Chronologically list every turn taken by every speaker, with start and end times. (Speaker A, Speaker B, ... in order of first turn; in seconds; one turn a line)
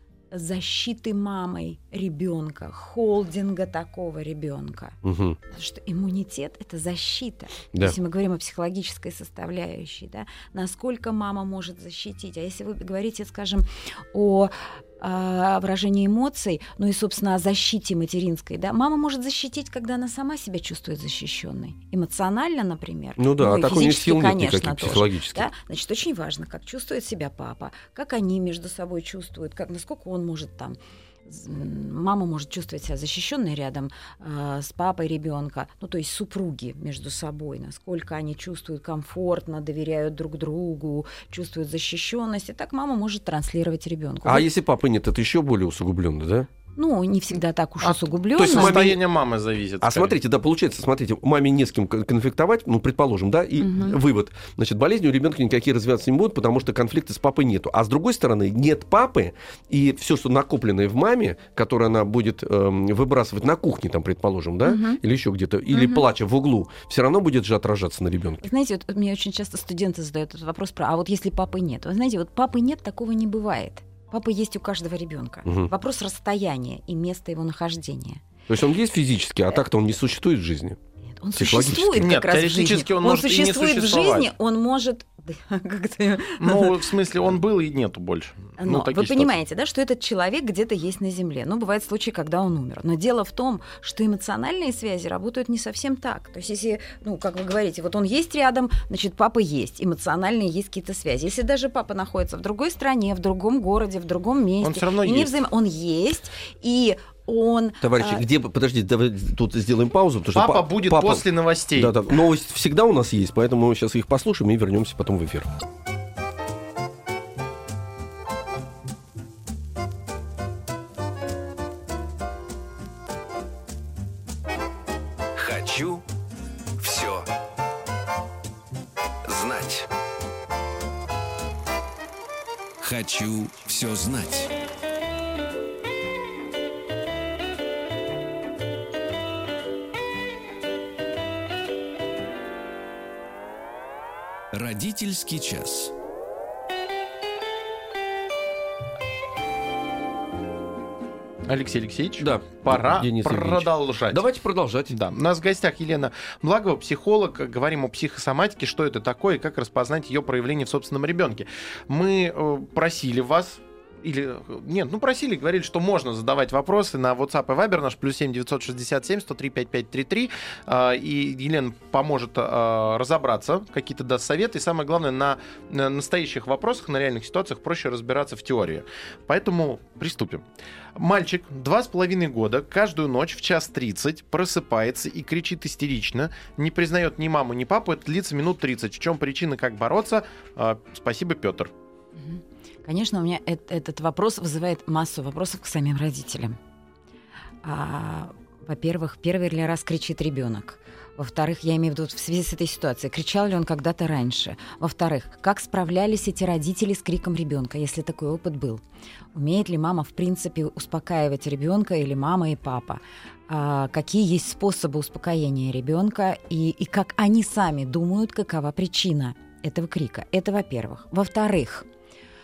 Speaker A: 0.3-5.0
Speaker B: 5.0-5.4
Speaker A: 5.5-44.5
Speaker B: 23.2-25.5
Speaker B: 44.2-46.5
Speaker A: 46.8-49.0
Speaker C: 47.8-50.1
Speaker B: 48.4-48.9
Speaker B: 49.8-68.5
Speaker A: 53.6-54.0
Speaker A: 64.6-65.0
Speaker A: 65.7-66.0
Speaker A: 68.4-78.2
Speaker B: 75.5-75.7
Speaker B: 78.5-80.8
Speaker A: 81.2-86.8
Speaker B: 81.3-82.1
Speaker C: 82.0-84.3
Speaker C: 86.4-89.3
Speaker A: 88.6-108.2
Speaker C: 104.6-105.3
Speaker B: 107.8-111.2
Speaker C: 110.3-111.9
Speaker B: 111.8-115.5
Speaker D: 125.3-126.0
Speaker D: 126.8-127.3
Speaker D: 129.2-129.9
Speaker D: 132.8-134.5
Speaker D: 144.5-145.9
Speaker C: 151.5-154.2
Speaker B: 152.2-154.9
Speaker C: 154.9-180.4
Speaker C: 181.0-191.7
Speaker A: 192.2-196.6
Speaker A: 197.6-208.8
Speaker A: 209.3-221.9